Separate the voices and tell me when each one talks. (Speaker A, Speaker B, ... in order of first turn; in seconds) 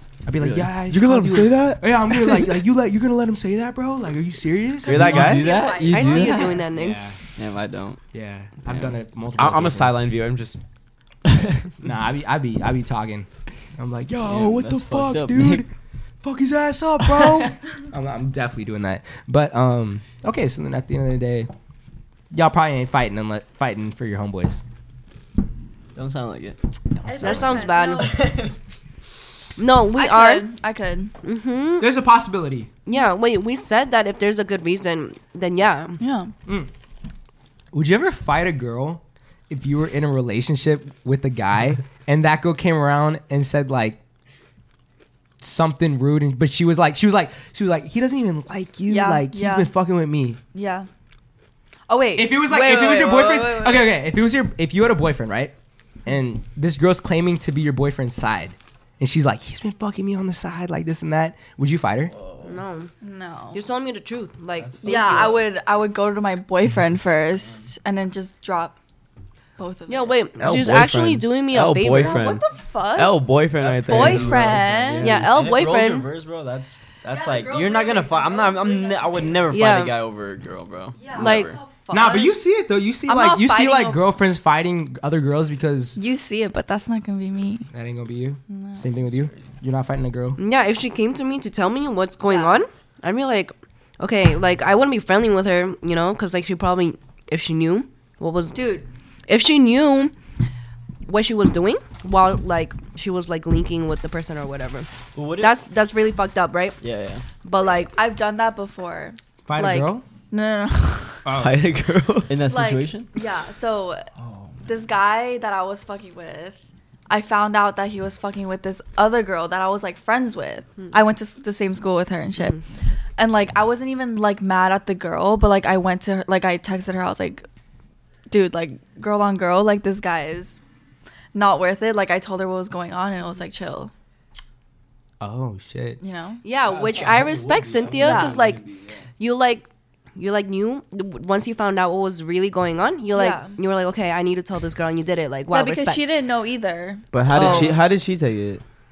Speaker A: 0.3-5.5, 6.8-7.2, 8.1-10.0, 11.8-15.7, 16.2-21.5, 22.3-24.6, 27.1-27.4, 31.8-32.7, 37.7-44.0, 45.4-50.4, 52.1-55.5, 56.1-62.1, 81.9-86.0, 87.7-90.4, 109.5-110.0, 111.2-111.6, 135.2-136.0
Speaker B: 0.4-0.7, 4.9-8.1, 8.7-8.9, 11.3-11.6, 14.2-15.6, 17.0-17.6, 25.9-28.6, 62.1-62.5, 64.6-65.3, 73.6-81.6, 89.1-89.4, 105.1-105.6, 106.8-107.2, 112.3-113.1, 114.2-114.7, 136.6-139.1
Speaker C: 0.9-2.6, 4.8-5.4, 9.4-10.6, 70.4-72.4, 72.9-74.5, 111.4-112.3, 147.1-148.6
Speaker D: 5.0-6.6, 27.1-28.1, 29.9-31.1, 36.0-36.3, 48.9-49.7, 50.5-50.9, 51.9-54.0, 63.0-63.6, 64.8-68.8, 69.6-70.2, 71.9-73.2, 73.9-75.2, 77.1-79.4, 81.0-82.4, 83.1-84.0, 86.0-87.7, 88.5-88.9, 92.2-92.6, 98.5-98.9, 107.6-111.2, 112.5-114.1, 114.6-116.6, 117.1-122.6, 123.2-127.5, 128.3-130.6, 131.3-133.9, 136.0-136.4, 138.0-138.4, 143.1-143.6, 145.5-147.7
Speaker E: 5.9-7.0, 27.2-28.2, 29.6-30.5, 31.2-31.9, 32.9-36.0, 62.4-62.9, 63.5-65.4, 69.9-72.4, 75.0-76.1, 79.5-80.0, 81.1-81.5, 90.4-98.7, 99.3-100.1, 101.1-106.8, 107.4-107.9, 136.4-138.6, 139.2-146.1, 147.3-147.8